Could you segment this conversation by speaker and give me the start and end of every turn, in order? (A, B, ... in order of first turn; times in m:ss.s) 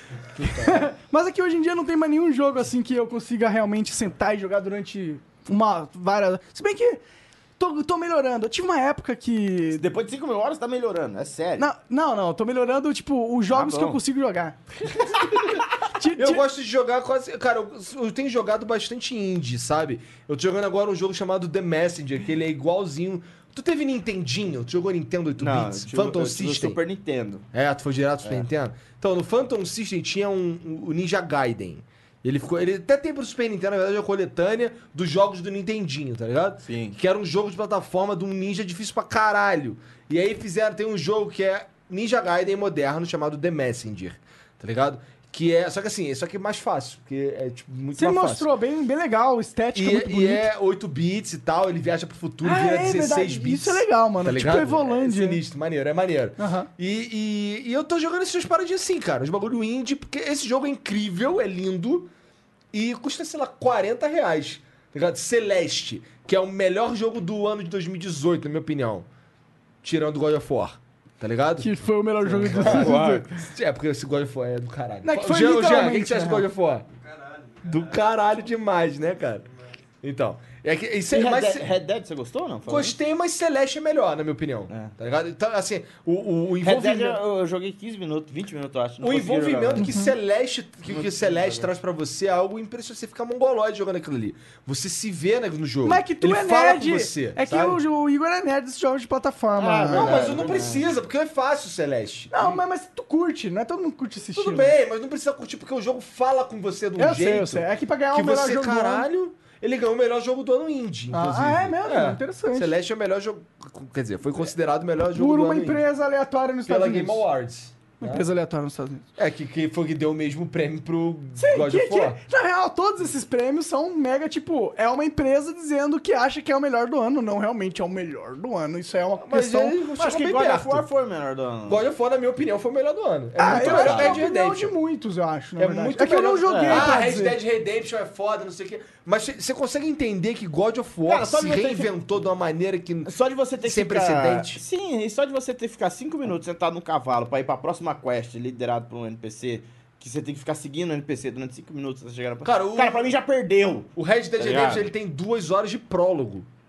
0:00.4-0:00.8 A
0:00.4-0:07.0 B
0:07.6-0:09.8 B
0:09.7-0:11.7 C
0:11.6-0:14.6 B
0:13.5-0:14.0 C
0:15.2-0:15.6 C
0:16.0-0:16.4 B
0:16.1-0:26.8 A
0:25.4-0:27.4 C
0:27.5-0:48.5 A
0:36.6-0:37.0 C
0:48.0-0:50.5 B
0:49.7-1:02.1 A
0:52.4-0:55.4 B
0:56.4-0:56.7 B
1:02.7-1:09.1 A
1:09.8-1:16.9 A
1:11.6-1:13.2 B
1:12.3-1:13.4 C
1:15.0-1:16.5 B
1:17.6-1:19.5 A
1:20.0-1:21.7 A
1:21.1-1:23.0 C
1:22.7-1:27.2 A
1:26.6-1:29.9 C
1:29.0-1:37.8 A
1:29.8-1:30.1 B
1:30.9-1:31.7 C
1:35.8-1:40.4 B
1:39.6-1:40.9 C
1:39.9-1:42.6 A
1:42.3-1:44.7 B
1:44.4-1:55.8 A
1:47.0-1:49.1 B
1:51.1-1:52.7 B
1:55.1-1:57.2 B
1:56.7-1:58.3 A
1:58.0-1:59.1 B
1:59.2-2:02.2 A
2:01.4-2:09.8 B
2:09.2-2:10.8 A
2:10.0-2:11.8 C
2:11.7-2:14.8 A
2:13.4-2:17.4 B
2:13.5-2:14.2 C
2:15.6-2:23.1 A
2:16.5-2:17.0 C
2:21.1-2:21.9 C
2:23.0-2:34.9 C
2:23.6-2:24.6 A
2:32.4-2:33.1 A
2:34.0-2:36.5 A